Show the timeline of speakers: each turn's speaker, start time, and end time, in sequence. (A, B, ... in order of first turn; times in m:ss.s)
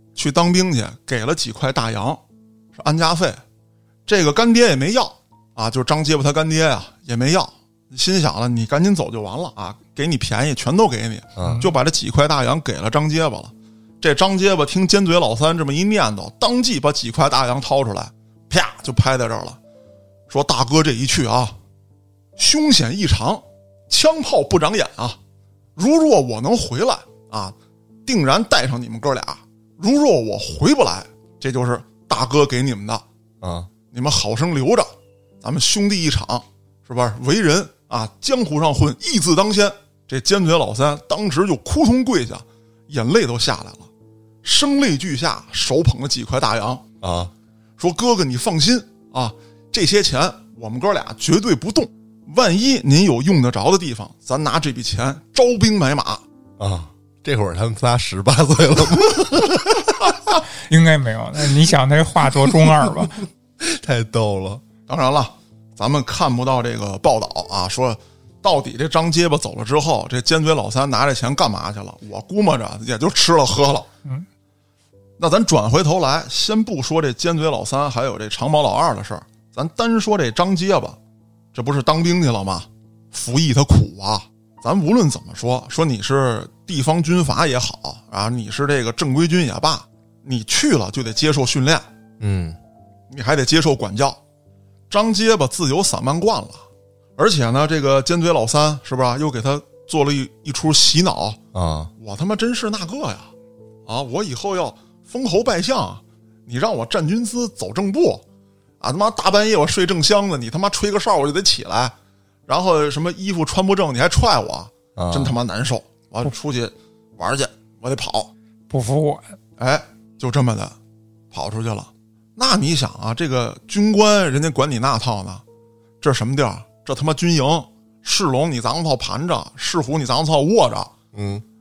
0:00.2-0:02.2 A
0:02.8-0:03.4 A
0:04.1-0:19.6 A
0:11.4-0:11.6 B
0:11.4-0:11.8 C
0:20.3-0:21.6 A
0:22.4-0:25.2 A
0:25.8-0:27.6 A
0:28.1-0:33.0 A
0:33.4-0:33.7 B
0:33.9-0:34.9 A
0:35.4-0:43.9 A
0:44.4-0:46.8 A
0:47.0-0:47.3 B
0:47.8-0:56.2 A
0:56.6-1:00.1 B
1:00.7-1:03.2 C
1:02.4-1:03.0 B
1:03.6-1:04.6 B
1:04.9-1:13.9 A
1:15.2-1:21.0 A
1:21.5-1:31.9 A
1:32.2-1:32.6 B
1:33.1-1:34.2 A
1:34.9-1:36.6 A
1:37.2-1:41.4 A
1:41.5-1:41.9 B
1:42.0-1:43.3 A
1:43.9-1:48.2 A
1:48.8-1:51.9 A
1:52.5-1:58.3 A
1:55.0-1:55.4 B
1:58.7-1:59.4 C
1:59.6-2:00.8 A
2:01.3-2:05.4 A
2:06.0-2:10.9 A
2:11.1-2:11.4 B